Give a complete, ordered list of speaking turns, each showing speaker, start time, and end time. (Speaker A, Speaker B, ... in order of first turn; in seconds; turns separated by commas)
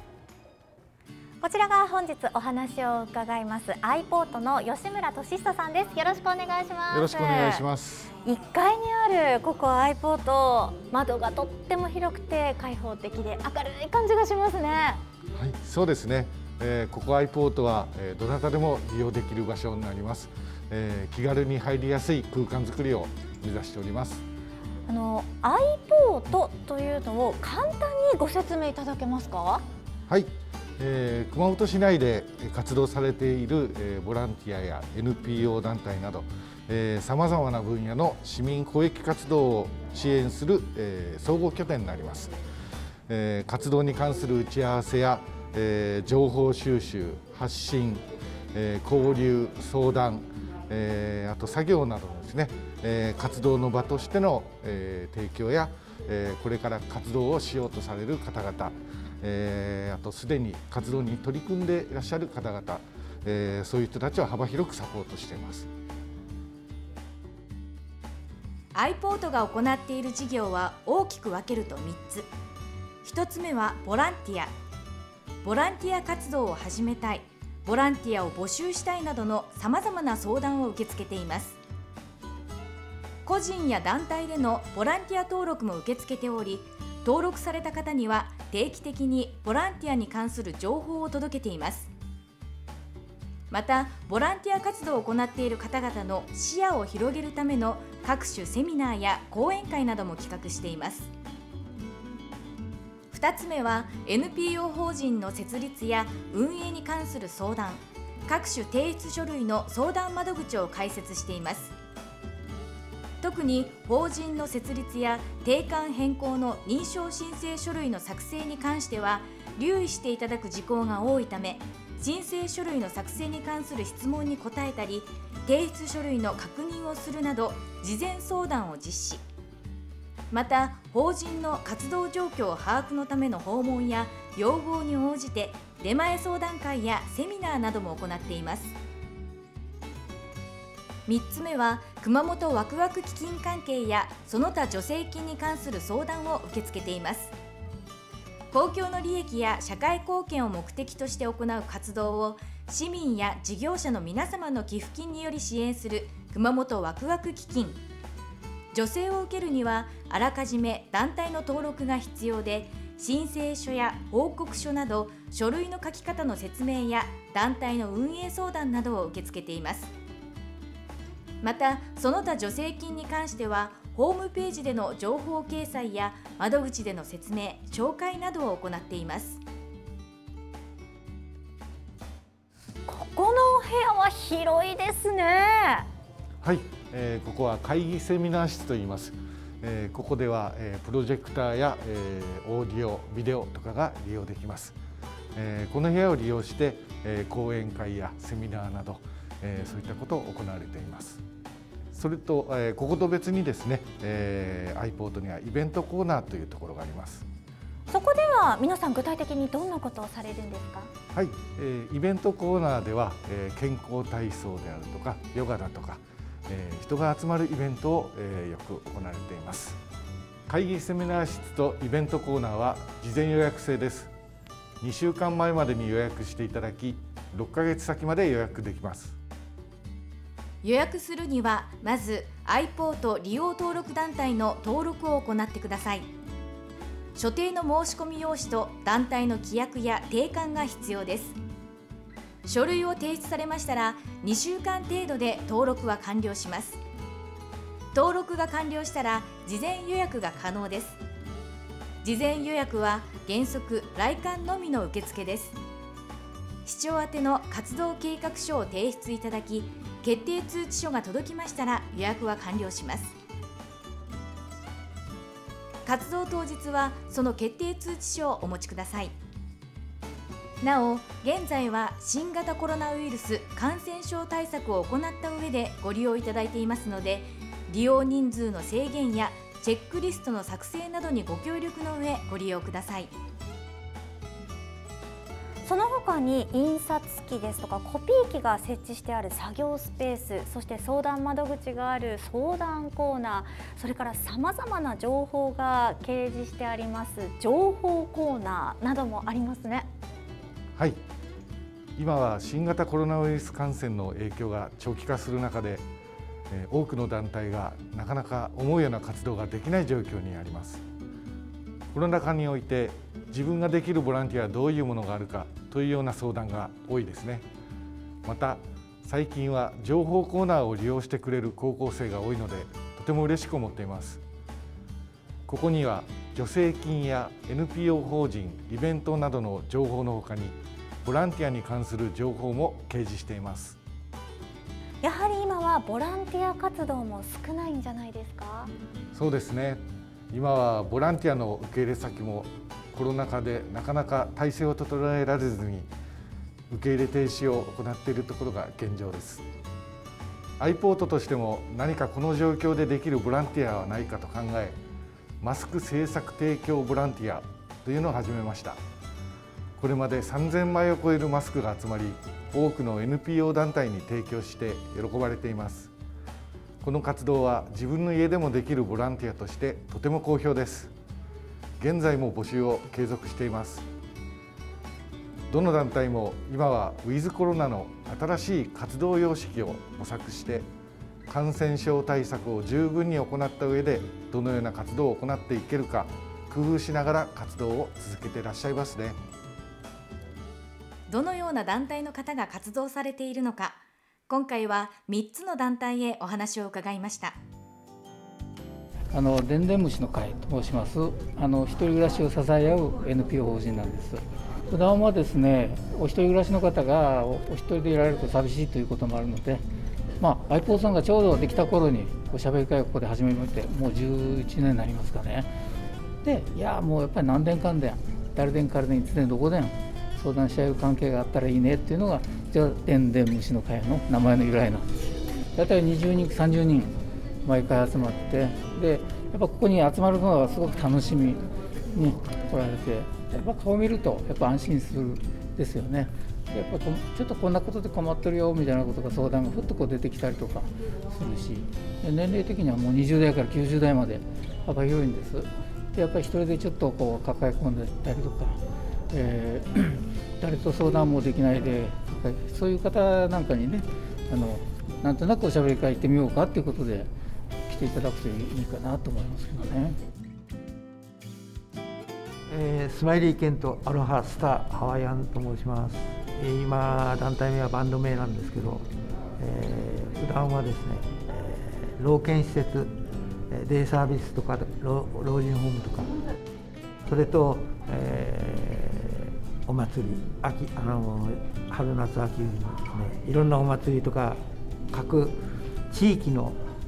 Speaker A: 1.4-7.6, Speaker B: 6.9-8.1, Speaker A: 8.2-15.0, Speaker B: 15.3-24.2, Speaker A: 24.9-29.6, Speaker B: 30.1-42.4, Speaker B: 43.1-48.0, Speaker B: 48.5-65.7, Speaker C: 68.7-72.3, Speaker C: 73.0-74.5, Speaker C: 75.4-81.6, Speaker C: 83.2-91.9, Speaker C: 93.5-101.1, Speaker C: 103.1-111.8, Speaker C: 113.2-129.2, Speaker C: 130.3-138.8, Speaker C: 141.1-147.3, Speaker C: 148.5-157.8, Speaker C: 158.7-169.9, Speaker C: 171.4-179.4, Speaker A: 182.9-185.9, Speaker B: 186.4-194.8, Speaker B: 195.3-201.2, Speaker B: 201.9-207.3, Speaker A: 207.9-210.9, Speaker B: 211.1-219.8, Speaker B: 220.5-224.1, Speaker B: 224.8-229.2, Speaker C: 230.6-236.1, Speaker C: 237.2-241.4, Speaker C: 242.4-246.8, Speaker C: 247.9-251.0, Speaker C: 252.0-255.6, Speaker C: 256.6-263.2, Speaker C: 265.9-269.1, Speaker C: 270.6-283.1, Speaker A: 285.6-299.9, Speaker B: 302.0-305.9, Speaker B: 306.5-310.8, Speaker B: 311.9-317.5, Speaker B: 318.2-324.2, Speaker B: 325.5-333.8, Speaker A: 335.0-338.7, Speaker B: 339.1-345.9, Speaker B: 346.7-349.4, Speaker B: 350.6-354.8, Speaker B: 355.4-358.8, Speaker B: 359.8-365.9, Speaker B: 366.8-370.9, Speaker B: 371.8-373.9, Speaker B: 375.5-380.7, Speaker B: 381.3-389.2, Speaker C: 391.1-397.4, Speaker D: 399.1-409.6, Speaker D: 410.2-415.5, Speaker D: 416.2-448.6, Speaker D: 449.1-457.1, Speaker D: 457.7-460.0, Speaker E: 462.5-468.9, Speaker E: 469.4-472.9, Speaker E: 473.5-476.1, Speaker E: 477.1-486.6